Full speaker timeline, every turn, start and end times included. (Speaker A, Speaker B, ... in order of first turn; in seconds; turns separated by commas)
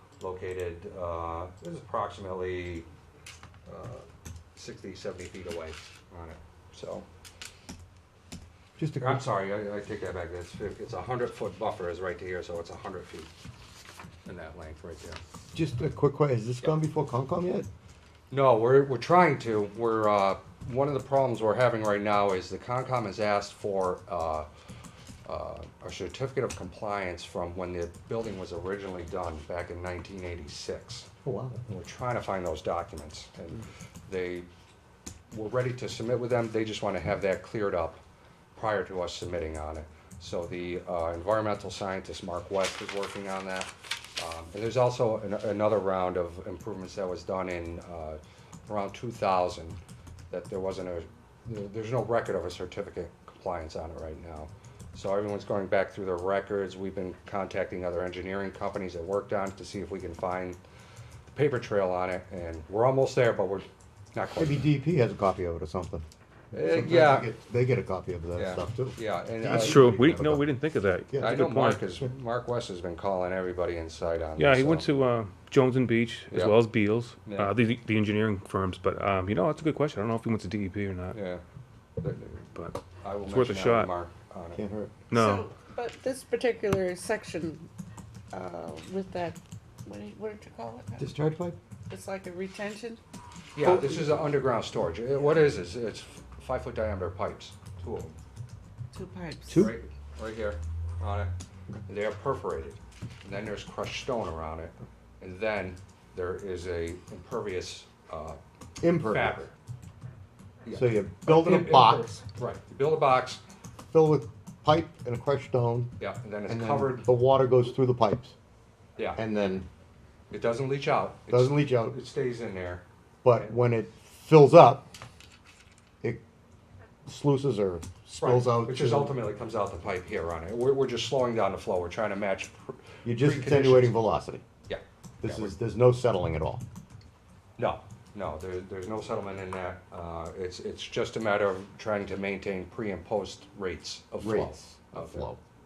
Speaker A: 0.2-2.9, Speaker A: 3.7-4.0, Speaker A: 4.6-7.1, Speaker B: 8.8-9.2, Speaker A: 9.0-13.3, Speaker A: 14.3-15.2, Speaker B: 15.5-17.7, Speaker A: 18.3-24.5, Speaker A: 25.2-31.1, Speaker B: 31.2-31.7, Speaker A: 31.7-34.5, Speaker A: 35.3-38.0, Speaker A: 38.6-60.6, Speaker A: 61.3-64.7, Speaker B: 64.4-70.5, Speaker A: 66.5-67.3, Speaker A: 68.3-70.2, Speaker C: 69.5-71.8, Speaker B: 71.1-71.5, Speaker A: 71.2-74.9, Speaker C: 74.4-81.2, Speaker A: 76.3-76.6, Speaker A: 77.2-77.5, Speaker A: 81.1-81.4, Speaker A: 82.0-84.6, Speaker C: 82.5-83.9, Speaker B: 84.5-85.0, Speaker C: 85.1-85.5, Speaker D: 85.1-87.7, Speaker D: 88.3-91.1, Speaker B: 91.0-91.6, Speaker D: 91.9-93.0, Speaker A: 93.5-98.2, Speaker B: 93.6-94.2, Speaker D: 98.9-99.7, Speaker B: 99.5-99.8, Speaker A: 99.5-101.3, Speaker A: 101.9-108.4, Speaker B: 108.8-109.5, Speaker A: 109.0-109.5, Speaker A: 110.7-113.4, Speaker B: 110.7-112.1, Speaker B: 113.9-116.0, Speaker A: 116.0-117.1, Speaker B: 116.5-118.4, Speaker B: 119.2-119.7, Speaker A: 120.3-122.8, Speaker B: 121.3-122.0, Speaker B: 123.2-124.9, Speaker B: 127.1-129.2, Speaker A: 128.2-133.9, Speaker B: 133.0-134.4, Speaker A: 134.7-135.5, Speaker B: 135.2-136.6, Speaker A: 137.6-145.3, Speaker B: 144.2-145.4